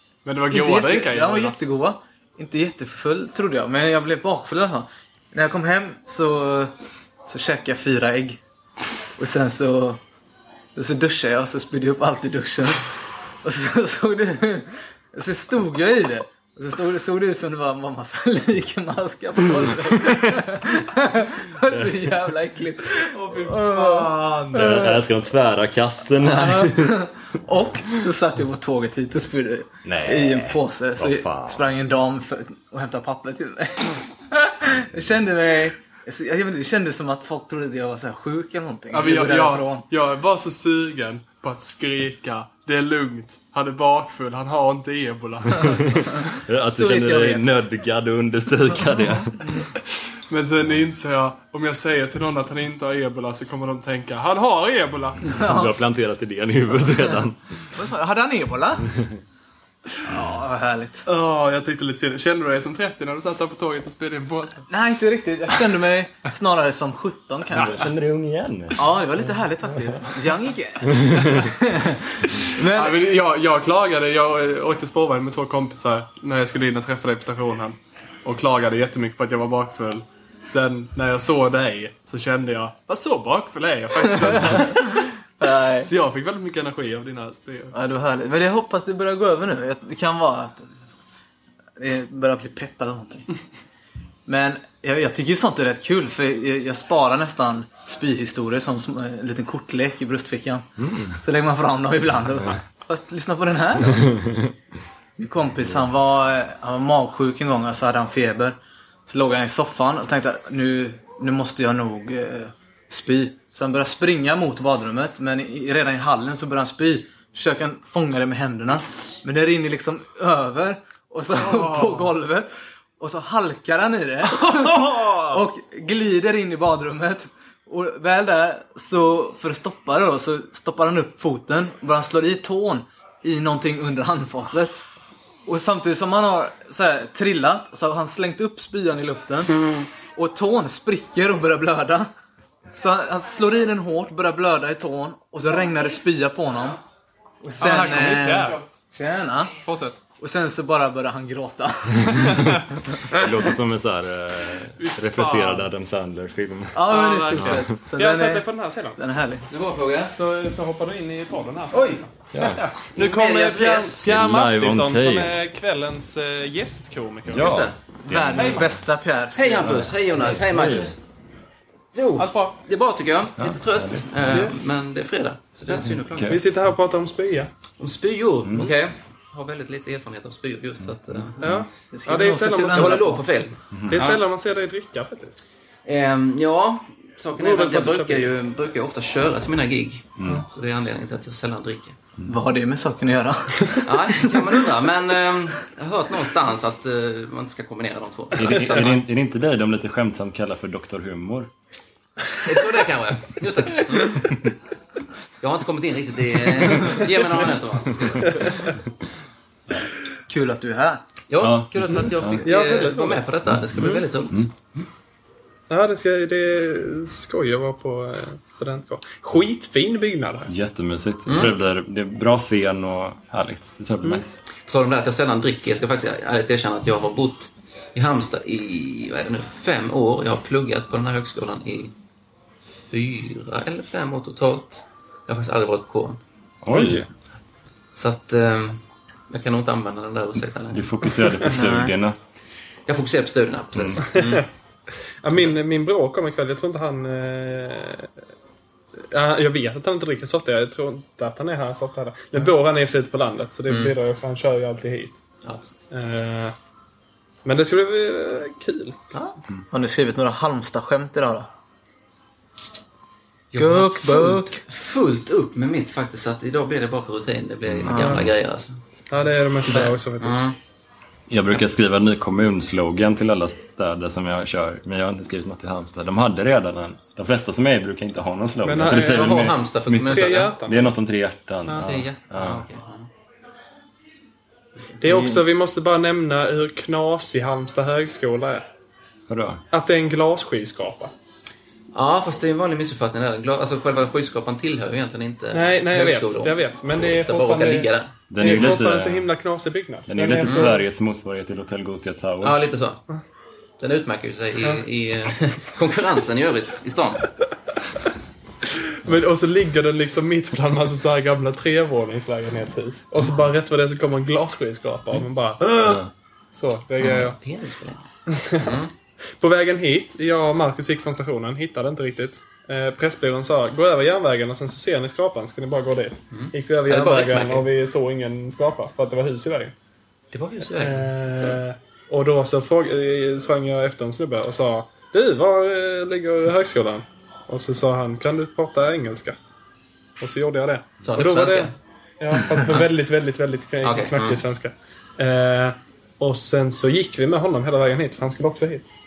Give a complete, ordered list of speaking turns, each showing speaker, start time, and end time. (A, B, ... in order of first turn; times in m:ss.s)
0:00.2-0:01.6 A
0:00.5-0:06.7 B
0:07.2-0:08.4 B
0:09.2-0:10.0 B
0:10.8-0:24.2 B
0:21.7-0:22.0 C
0:23.1-0:24.6 A
0:24.3-0:27.1 C
0:26.2-0:39.8 B
0:29.8-0:31.7 C
0:38.9-0:46.3 A
0:45.6-0:49.7 C
0:46.7-0:47.6 B
0:49.8-0:55.5 A
0:55.3-0:55.7 B
0:55.4-0:57.7 C
0:57.7-0:58.9 B
1:00.0-1:01.1 B
1:01.1-1:04.7 A
1:04.7-1:07.9 B
1:07.5-1:08.9 C
1:08.8-1:13.0 B
1:10.9-1:11.5 C
1:12.6-1:25.2 A
1:25.4-1:25.9 B
1:25.8-1:27.8 A
1:27.7-1:30.7 B
1:31.8-1:33.3 B
1:34.3-1:44.1 B
1:40.8-1:41.2 C
1:43.9-1:44.5 C
1:45.2-1:48.6 B
1:49.1-2:14.8 B
2:01.4-2:02.1 A
2:15.5-2:22.1 B
2:22.7-2:26.8 B
2:27.4-2:29.5 B
2:27.6-2:28.6 A
2:29.6-2:30.0 A
2:30.2-2:32.5 B
2:32.1-2:37.7 C
2:32.3-2:32.6 A
2:34.8-2:35.7 A
2:36.7-2:39.4 B
2:36.9-2:39.0 A
2:39.5-2:40.2 D
2:40.1-2:47.8 A
2:41.7-2:42.0 D
2:42.3-2:42.6 C
2:42.9-2:44.1 D
2:44.0-2:45.3 C
2:47.3-2:48.8 C
2:47.3-2:47.8 D
2:48.1-2:50.0 B
2:48.3-2:48.7 A
2:49.4-2:51.0 D
2:49.7-2:50.9 C
2:51.9-2:56.5 D
2:52.2-2:52.6 A
2:53.4-2:54.1 C
2:54.3-2:54.6 A
2:55.7-2:56.4 C
2:56.3-2:57.5 A
2:57.8-3:01.7 D
2:58.5-2:58.7 C
3:00.8-3:01.3 C
3:01.4-3:03.2 A
3:01.9-3:03.2 B
3:02.7-3:04.2 D
3:03.7-3:04.0 C
3:03.9-3:05.4 A
3:05.8-3:12.0 D
3:07.4-3:08.3 A
3:10.2-3:10.4 C
3:12.3-3:14.8 B
3:13.8-3:19.1 D
3:18.4-3:21.5 C
3:22.4-3:24.3 D
3:24.2-3:24.5 C
3:25.4-3:28.8 D
3:30.3-3:31.0 B
3:31.3-3:34.8 D
3:31.4-3:32.5 C
3:32.3-3:34.0 A
3:35.7-3:40.5 A
3:40.5-3:44.4 C
3:41.3-3:41.5 D
3:44.6-3:51.9 D
3:52.6-3:56.2 D
3:56.6-3:57.1 C
3:56.7-3:57.0 A
3:57.9-4:01.8 D
4:00.7-4:02.2 C
4:01.5-4:01.9 B
4:02.9-4:04.5 D
4:03.8-4:04.0 C
4:04.1-4:04.4 A
4:05.2-4:08.1 A
4:09.1-4:15.2 A
4:13.7-4:14.0 D
4:15.4-4:15.7 D
4:15.9-4:16.6 A
4:17.4-4:19.0 A
4:19.1-4:19.4 D
4:19.7-4:21.5 B
4:23.5-4:28.8 D
4:23.6-4:24.6 B
4:27.7-4:28.3 C
4:27.9-4:28.3 B
4:29.1-4:30.4 A
4:29.7-4:30.6 D
4:31.3-4:42.7 C
4:38.6-4:40.9 A
4:38.9-4:40.5 D
4:41.7-4:43.1 D
4:45.0-4:48.7 A
4:45.0-4:45.4 B
4:49.3-4:49.6 C
4:49.7-4:51.1 A
4:51.9-4:58.8 D
4:55.5-5:00.8 A
4:58.3-4:59.3 C
5:00.1-5:02.7 C
5:00.4-5:00.7 D
5:02.4-5:03.0 D
5:03.8-5:07.3 D
5:08.9-5:17.4 A
5:15.8-5:16.1 C
5:17.0-5:18.9 D
5:18.3-5:18.8 A
5:19.4-5:29.7 A
5:26.3-5:27.7 D
5:30.3-5:31.6 D
5:30.8-5:39.4 A
5:40.2-5:48.9 A
5:41.0-5:41.7 D
5:42.5-5:42.9 D
5:43.8-5:44.4 D